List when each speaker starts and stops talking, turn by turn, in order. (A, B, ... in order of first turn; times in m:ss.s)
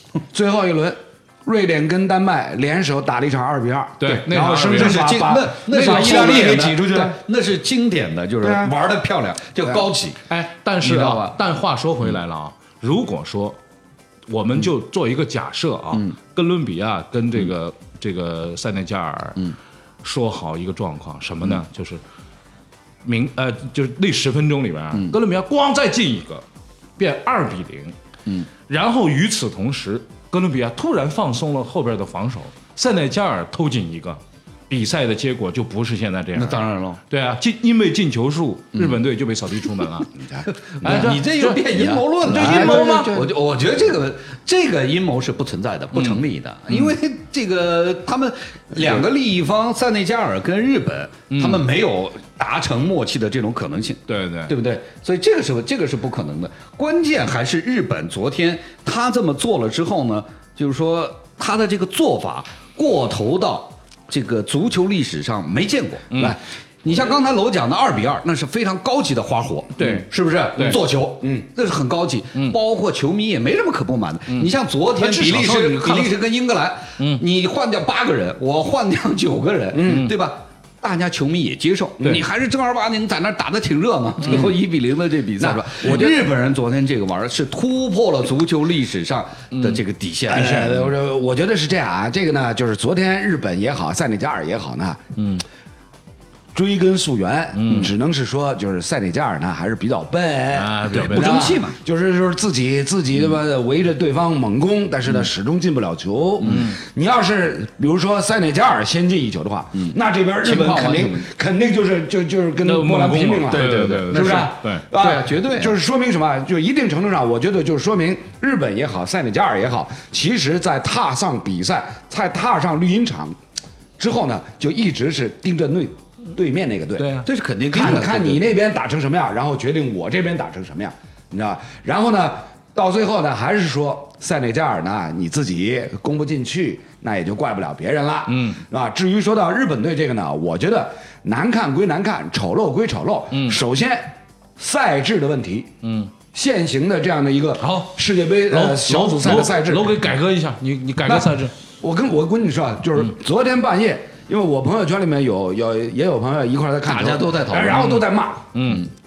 0:00.3-0:07.2 A
0:04.0-0:05.1 B
0:04.7-0:10.2 C
0:05.7-0:06.7 B
0:08.4-0:08.7 A
0:10.3-0:13.6 B
0:10.8-0:11.4 C
0:14.3-0:19.4 B
0:20.0-0:22.0 B
0:23.0-0:26.4 B
0:27.0-0:27.9 B
0:28.7-0:40.1 B
0:36.4-0:37.0 C
0:38.7-0:39.0 C
0:40.3-0:41.0 A
0:40.6-1:06.1 C
0:40.8-0:43.3 B
0:42.3-0:43.3 A
0:45.9-0:47.0 B
0:51.3-0:51.6 B
0:54.1-0:54.5 B
1:06.8-1:30.7 C
1:09.8-1:10.8 B
1:11.2-1:11.4 A
1:14.3-1:16.2 B
1:19.7-1:20.1 A
1:19.8-1:20.1 B
1:24.2-1:24.6 B
1:25.4-1:26.2 A
1:29.5-1:29.8 B
1:30.3-1:35.0 A
1:30.4-1:30.9 B
1:35.2-1:35.4 B
1:36.5-2:03.4 A
1:37.5-1:37.9 B
1:40.5-1:41.6 B
1:40.9-1:41.8 C
1:49.8-1:51.2 C
1:52.6-1:54.8 B
1:53.5-1:55.7 C
2:04.0-2:07.1 A
2:07.0-2:07.3 B
2:07.2-2:08.4 C
2:07.7-2:25.7 A
2:18.3-2:18.6 B
2:23.3-2:23.6 B
2:25.8-2:26.1 B
2:26.3-2:30.0 A
2:27.6-2:27.9 B
2:28.5-2:31.5 B
2:31.0-2:38.6 A
2:36.8-2:37.9 C
2:37.7-2:38.9 B